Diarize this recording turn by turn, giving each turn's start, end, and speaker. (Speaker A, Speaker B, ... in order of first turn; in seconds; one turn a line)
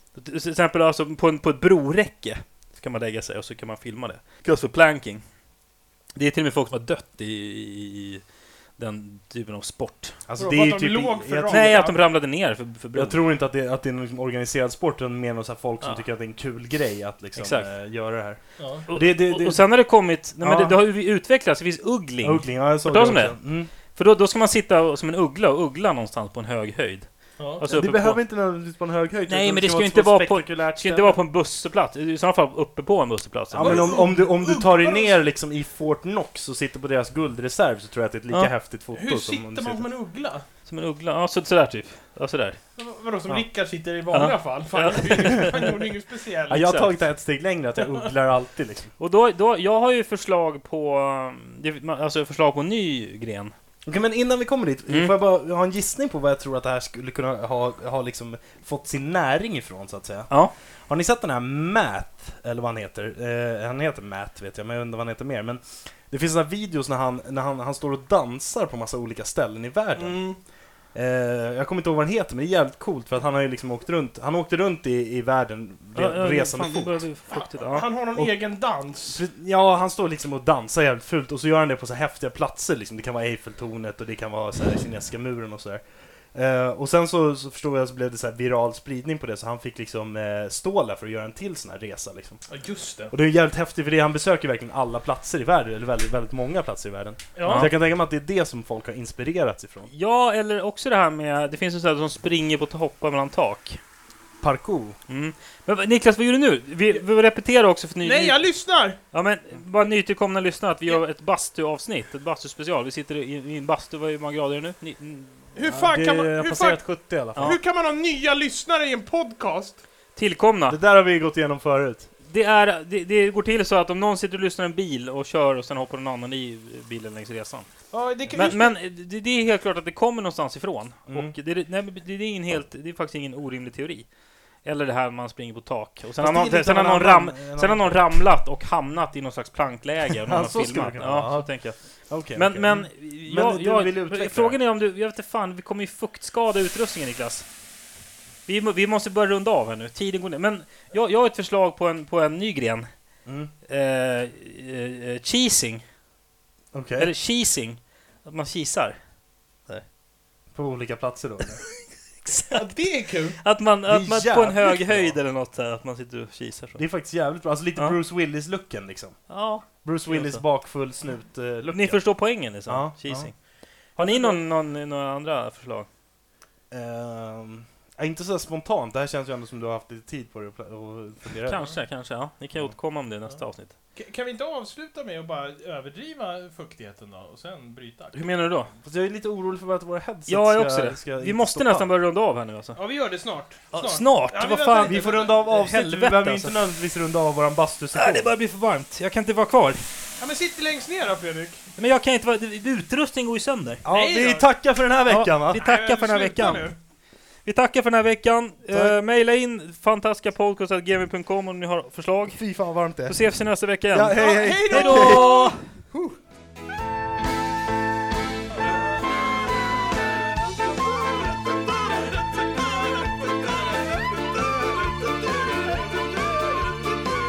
Speaker A: 0.1-5.2
Speaker A: 6.2-8.2
Speaker A: 8.8-10.2
Speaker B: 10.3-11.8
Speaker C: 10.4-12.0
Speaker A: 11.5-13.2
Speaker B: 12.9-19.6
Speaker A: 17.4-17.7
Speaker C: 18.6-18.9
Speaker A: 18.9-28.2
Speaker B: 20.4-20.8
Speaker B: 22.2-23.7
Speaker C: 27.4-27.7
Speaker B: 27.7-31.2
Speaker A: 29.3-34.0
Speaker B: 33.5-39.9
Speaker C: 33.6-35.2
Speaker C: 38.9-40.5
Speaker A: 40.7-42.6
Speaker C: 42.8-46.9
Speaker A: 44.1-45.8
Speaker B: 46.5-48.9
Speaker C: 47.8-48.0
Speaker A: 49.0-53.5
Speaker B: 53.9-60.3
Speaker A: 54.9-55.1
Speaker B: 60.9-70.2
Speaker C: 70.0-70.4
Speaker B: 70.9-77.0
Speaker A: 76.0-77.9
Speaker C: 77.3-79.2
Speaker B: 79.1-92.4
Speaker C: 92.5-93.1
Speaker B: 93.1-99.9
Speaker C: 97.3-97.7
Speaker A: 97.4-97.7
Speaker A: 99.9-103.8
Speaker B: 104.4-105.0
Speaker A: 105.1-108.4
Speaker C: 108.0-109.0
Speaker A: 109.1-115.5
Speaker C: 115.5-116.8
Speaker B: 115.6-117.6
Speaker C: 117.3-119.8
Speaker A: 120.2-120.8
Speaker B: 120.7-122.1
Speaker A: 122.3-127.7
Speaker C: 127.9-128.8
Speaker A: 128.3-134.1
Speaker B: 131.1-131.3
Speaker A: 134.7-141.8
Speaker B: 136.2-138.0
Speaker B: 140.3-141.5
Speaker B: 142.1-144.6
Speaker A: 142.3-147.5
Speaker A: 148.5-152.9
Speaker B: 153.3-153.5
Speaker A: 153.7-155.8
Speaker B: 156.7-157.1
Speaker A: 157.0-159.0
Speaker B: 160.5-161.6
Speaker A: 162.2-162.6
Speaker C: 162.3-163.4
Speaker A: 163.4-166.8
Speaker B: 163.9-165.2
Speaker B: 166.8-172.0
Speaker A: 169.3-170.4
Speaker A: 171.7-173.3
Speaker B: 172.7-173.3
Speaker A: 174.0-175.9
Speaker C: 174.0-174.4
Speaker B: 176.7-181.7
Speaker A: 181.4-183.7
Speaker C: 183.9-188.4
Speaker A: 188.1-188.7
Speaker B: 188.8-191.9
Speaker A: 190.3-192.8
Speaker C: 192.8-195.4
Speaker A: 193.7-196.6
Speaker B: 194.8-198.3
Speaker A: 197.9-199.8
Speaker C: 200.2-201.7
Speaker A: 201.8-203.8
Speaker B: 203.8-205.6
Speaker C: 203.9-204.5
Speaker A: 205.1-206.7
Speaker C: 205.6-206.8
Speaker A: 207.4-212.4
Speaker B: 208.7-209.0
Speaker B: 212.3-213.2
Speaker A: 213.1-215.6
Speaker B: 213.9-215.4
Speaker C: 214.1-215.6
Speaker B: 215.9-216.2